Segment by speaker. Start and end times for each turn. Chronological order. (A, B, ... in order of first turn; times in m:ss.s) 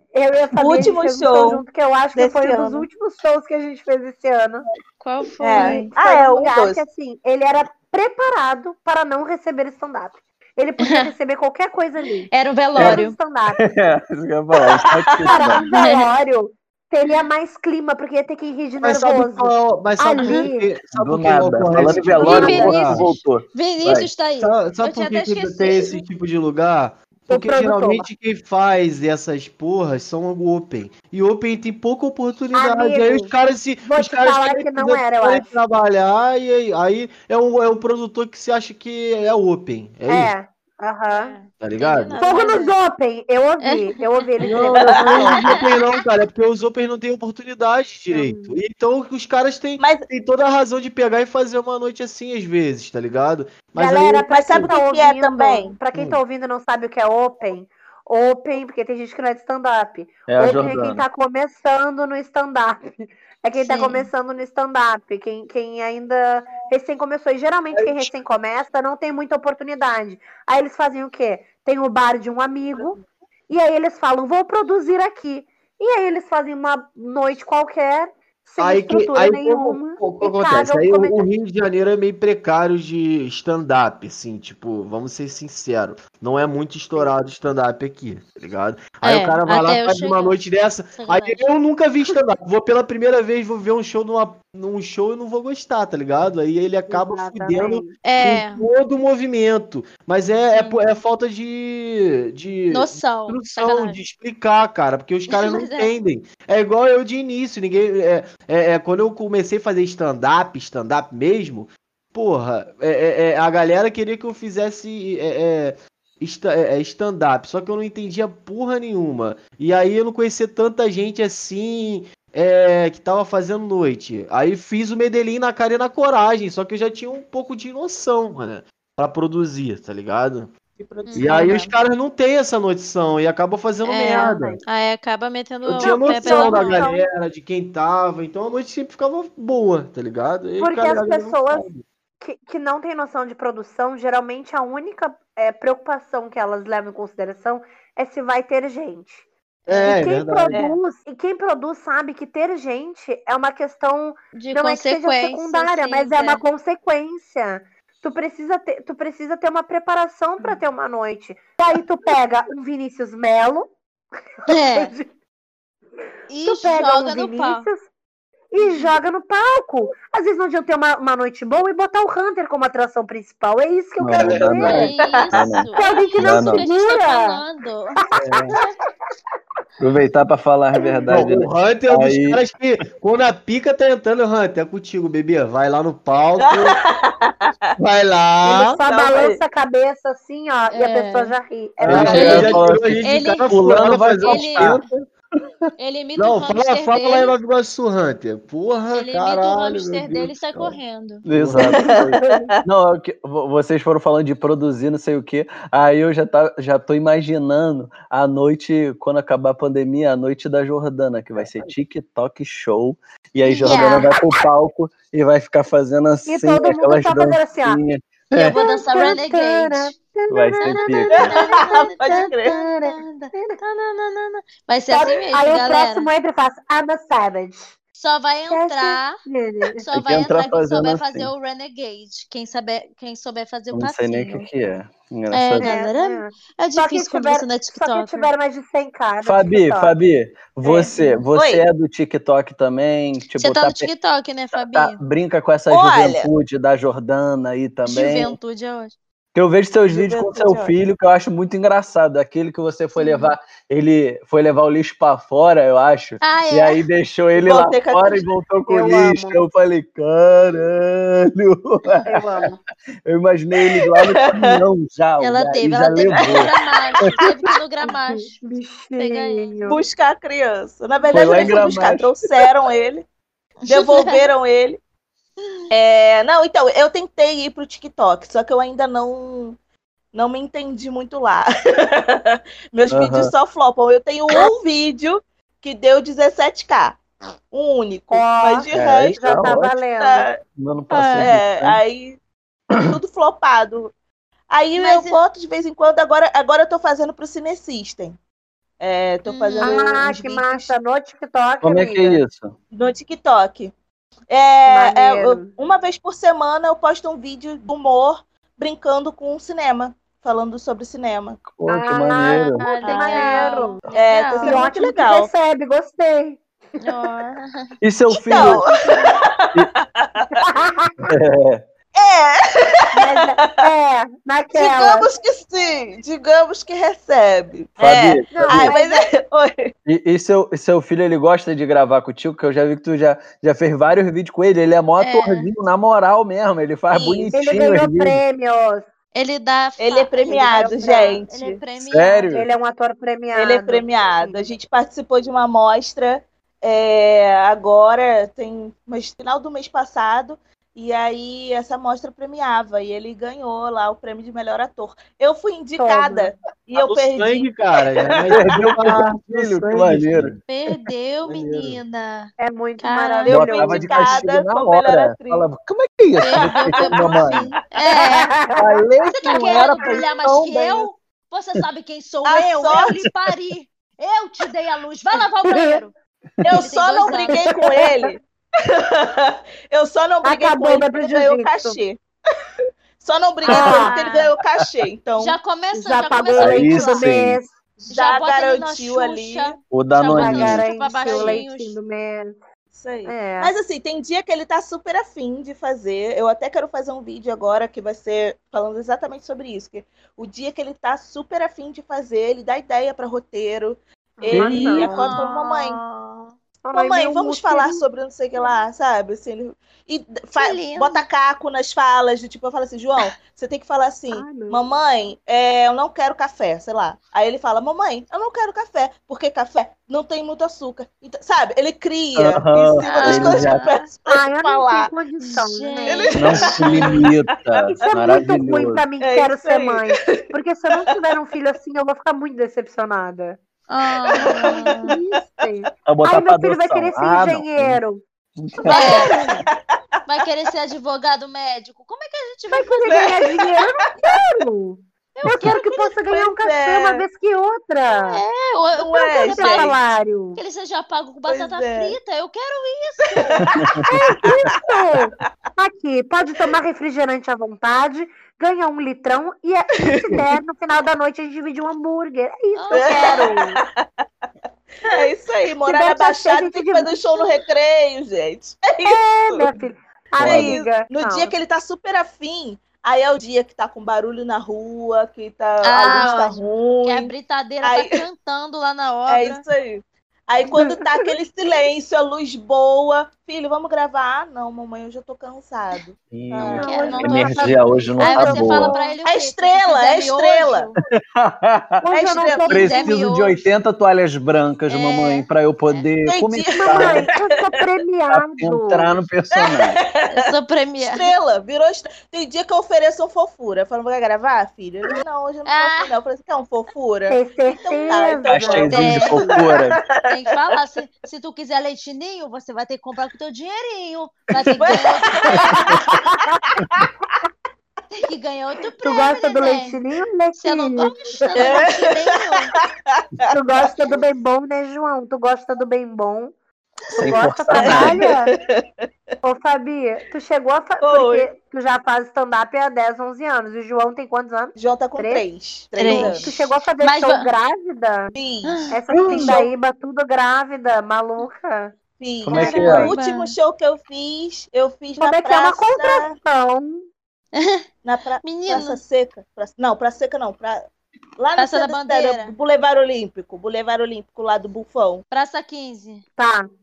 0:00.2-0:04.7 A
0:00.6-0:01.6 B
0:02.2-0:02.9 B
0:05.0-0:05.9 C
0:05.4-0:06.8 B
0:05.6-0:13.6 A
0:10.8-0:11.1 C
0:12.3-0:13.2 C
0:12.8-0:13.0 D
0:13.6-0:15.6 D
0:15.3-0:20.7 A
0:15.7-0:16.1 C
0:18.8-0:23.0 E
0:20.2-0:20.4 C
0:20.9-0:24.1 D
0:22.2-0:23.2 A
0:22.2-0:26.0 C
0:24.4-0:40.3 E
0:27.3-0:28.1 A
0:32.5-0:33.3 A
0:33.8-0:35.5 A
0:40.1-0:41.4 A
0:41.1-0:42.7 C
0:41.6-0:42.7 E
0:42.2-0:45.5 A
0:43.6-0:44.3 C
0:44.4-0:54.8 E
0:45.1-0:45.3 B
0:45.3-0:45.8 C
0:48.1-0:48.6 A
0:49.8-0:50.1 B
0:53.8-1:21.3 A
0:54.3-0:55.8 B
0:55.9-0:56.2 E
1:00.3-1:01.0 D
1:03.6-1:04.1 C
1:07.7-1:08.1 E
1:18.6-2:10.5 E
1:29.0-1:30.4 C
1:31.0-1:31.5 C
1:36.9-1:37.9 A
1:38.0-1:38.6 C
1:40.5-1:40.8 C
1:42.7-1:44.0 C
1:45.3-1:45.9 C
2:10.8-2:11.7 B
2:11.1-2:11.7 C
2:11.2-2:14.6 E
2:13.8-2:16.9 C
2:14.0-2:14.6 A
2:15.6-2:21.8 E
2:15.8-2:17.1 A
2:20.6-2:21.7 A
2:22.2-2:29.2 A
2:29.7-2:29.9 B
2:29.7-2:30.6 E
2:29.8-2:43.7 A
2:34.3-2:36.4 C
2:44.4-2:45.1 A
2:44.5-2:44.9 C
2:46.3-2:47.7 C
2:46.4-2:47.9 A
2:48.5-2:54.9 A
2:48.6-2:48.9 C
2:54.0-2:56.6 D
2:54.2-2:54.9 E
2:54.6-2:58.0 C
2:55.8-2:57.4 A
2:58.2-2:58.6 D
2:59.8-3:02.4 D
3:01.1-3:06.8 E
3:06.4-3:07.7 B
3:07.8-3:08.8 E
3:08.4-3:12.5 A
3:08.8-3:09.4 B
3:10.7-3:11.4 C
3:11.8-3:14.8 D
3:11.8-3:15.1 E
3:12.1-3:14.8 C
3:15.8-3:17.3 C
3:16.2-3:20.8 E
3:18.9-3:21.2 C
3:21.3-3:39.2 D
3:21.3-3:21.8 E
3:21.8-3:22.6 B
3:33.5-3:33.9 A
3:33.6-3:34.1 C
3:36.3-3:37.8 A
3:38.3-3:40.0 C
3:38.5-3:41.1 A
3:40.3-3:41.3 D
3:40.6-3:46.1 C
3:41.4-3:42.5 B
3:41.6-3:43.6 A
3:44.9-3:47.7 A
3:48.0-3:49.2 C
3:48.5-3:49.9 A
3:49.8-3:54.5 C
3:49.9-3:51.3 D
3:53.7-3:55.7 D
3:55.3-3:58.3 C
3:55.6-3:59.9 A
3:59.2-4:03.9 D
4:00.6-4:01.6 B
4:03.4-4:05.0 C
4:04.5-4:08.4 D
4:05.7-4:06.3 B
4:07.9-4:09.0 C
4:09.4-4:22.3 D
4:09.9-4:10.7 B
4:13.0-4:13.4 C
4:16.2-4:16.8 C
4:17.3-4:18.2 B
4:18.7-4:19.4 A
4:22.1-4:22.6 A
4:23.1-4:26.5 D
4:24.0-4:24.6 B
4:25.2-4:28.4 C
4:27.8-4:29.8 A
4:29.0-4:29.6 C
4:29.7-4:33.1 B
4:30.9-4:31.7 C
4:31.1-4:32.2 D
4:33.6-4:34.3 C
4:33.7-4:34.8 B
4:35.7-4:39.6 B
4:40.1-4:47.0 B
4:42.9-4:43.3 D
4:47.5-4:50.4 B
4:48.1-4:48.7 A
4:48.7-4:49.8 D
4:49.2-4:50.3 A
4:50.6-4:51.8 D
4:50.9-4:51.3 C
4:51.2-4:52.2 B
4:52.8-4:53.9 B
4:54.5-4:58.2 B
4:54.8-4:55.2 C
4:58.8-5:00.7 B
4:59.3-5:00.0 C
4:59.6-5:02.2 A
5:01.6-5:02.6 D
5:02.7-5:03.7 B
5:04.3-5:11.4 B
5:04.7-5:05.5 A
5:11.5-5:12.6 D
5:11.7-5:13.8 A
5:12.6-5:14.7 C
5:12.8-5:13.4 B
5:13.9-5:15.3 B
5:14.4-5:16.4 A
5:16.8-5:17.7 C
5:17.8-5:18.7 D
5:18.3-5:20.4 B
5:18.4-5:19.2 A
5:20.4-5:21.0 A
5:21.0-5:21.6 D
5:22.0-5:23.2 B
5:22.9-5:25.1 A
5:24.6-5:29.7 B
5:27.8-5:28.8 D
5:28.3-5:29.0 A
5:29.9-5:38.2 D
5:35.0-5:35.5 C
5:36.9-5:37.3 B
5:37.3-5:38.8 A
5:39.1-5:42.4 C
5:39.8-5:41.6 B
5:40.3-5:41.2 A
5:41.8-5:42.5 D
5:42.3-5:44.4 A
5:43.3-5:58.6 B
5:55.8-5:56.3 A
5:56.8-6:00.4 E
5:58.3-6:00.3 D
6:00.5-6:03.5 C
6:01.3-6:01.8 E
6:02.4-6:04.1 A
6:03.3-6:05.5 B
6:03.3-6:07.5 D
6:06.2-6:08.3 C
6:06.4-6:08.1 B
6:08.1-6:08.6 A
6:08.5-6:10.9 D
6:09.0-6:15.9 C
6:09.2-6:09.6 A
6:12.2-6:12.9 B
6:12.7-6:13.1 D
6:15.5-6:15.8 A
6:16.4-6:22.0 B
6:16.5-6:17.4 C
6:17.3-6:18.0 A
6:20.2-6:21.8 A
6:23.0-6:25.4 B
6:23.4-6:24.3 C
6:23.5-6:24.0 A
6:25.2-6:27.1 C
6:25.7-6:27.5 A
6:26.4-6:27.4 D
6:27.8-6:29.5 B
6:27.9-6:31.8 C
6:29.7-6:30.6 D
6:30.1-6:32.4 A
6:32.8-6:45.8 B
6:33.1-6:33.6 A
6:44.2-6:45.2 A
6:44.3-6:44.7 D
6:44.7-6:46.3 C
6:46.6-6:47.8 A
6:46.7-7:04.9 B
6:50.4-6:51.1 C
6:54.1-6:54.6 A
7:02.2-7:03.6 D
7:02.9-7:03.8 C
7:04.1-7:06.4 A
7:05.2-7:07.0 C
7:05.9-7:07.2 B
7:06.2-7:08.8 D
7:07.6-7:13.4 A
7:09.0-7:10.2 B
7:13.7-7:14.9 C
7:14.1-7:15.1 B
7:14.9-7:18.0 A
7:15.9-7:17.8 D
7:18.4-7:19.0 D
7:18.7-7:19.3 B
7:18.7-7:19.2 C
7:18.7-7:19.4 A
7:20.1-7:23.2 C
7:22.6-7:28.2 A
7:22.8-7:23.5 B
7:25.2-7:25.6 C
7:26.1-7:27.0 B
7:27.9-7:29.8 C
7:28.8-7:29.8 B
7:29.4-7:30.4 A
7:30.4-7:33.5 C
7:31.3-7:32.0 B
7:33.4-7:34.0 D
7:33.9-7:43.6 A
7:34.1-7:34.6 B
7:39.9-7:40.2 B
7:42.6-7:43.3 C
7:42.7-7:43.8 B
7:44.9-7:49.6 B
7:45.7-7:47.3 A
7:48.8-7:51.4 A
7:50.2-7:50.6 D
7:50.2-7:57.1 B
7:55.6-7:59.4 C
7:55.9-7:56.1 A
7:57.6-7:57.9 B
7:59.1-8:07.4 B
8:00.6-8:01.1 A
8:06.1-8:08.7 D
8:06.5-8:10.8 C
8:06.5-8:09.0 A
8:09.1-8:10.7 B
8:11.1-8:11.8 D
8:11.8-8:13.0 A
8:11.9-8:12.7 B
8:12.2-8:13.4 C
8:12.5-8:17.1 D
8:14.7-8:15.9 C
8:16.1-8:17.2 B
8:16.6-8:19.0 A
8:18.1-8:19.8 D
8:19.4-8:29.6 B
8:20.1-8:21.1 C
8:25.5-8:25.9 C
8:27.1-8:29.4 A
8:28.3-8:29.8 D
8:28.7-8:29.2 C
8:30.0-8:35.9 C
8:34.7-8:35.9 B
8:36.1-8:36.4 A
8:36.5-8:36.8 B
8:36.6-8:36.9 D
8:37.9-8:39.8 C
8:38.8-8:41.6 A
8:40.4-8:42.6 C
8:41.4-8:41.8 B
8:42.6-8:43.3 B
8:43.3-8:46.3 A
8:46.9-8:48.0 D
8:47.0-8:48.3 A
8:47.6-8:48.6 B
8:49.2-8:55.2 A
8:50.8-8:51.3 B
8:54.6-8:56.3 B
8:55.8-8:57.3 C
8:55.8-8:58.2 A
8:58.2-8:59.5 B
8:58.4-8:59.4 C
8:58.7-9:01.7 A
9:02.0-9:06.1 B
9:02.3-9:02.9 D
9:02.3-9:03.3 C
9:02.6-9:02.9 A
9:05.0-9:06.8 A
9:07.4-9:07.7 C
9:07.8-9:10.7 B
9:08.2-9:08.8 C
9:11.2-9:15.0 B
9:11.4-9:12.4 C
9:15.1-9:16.0 C
9:16.2-9:16.5 A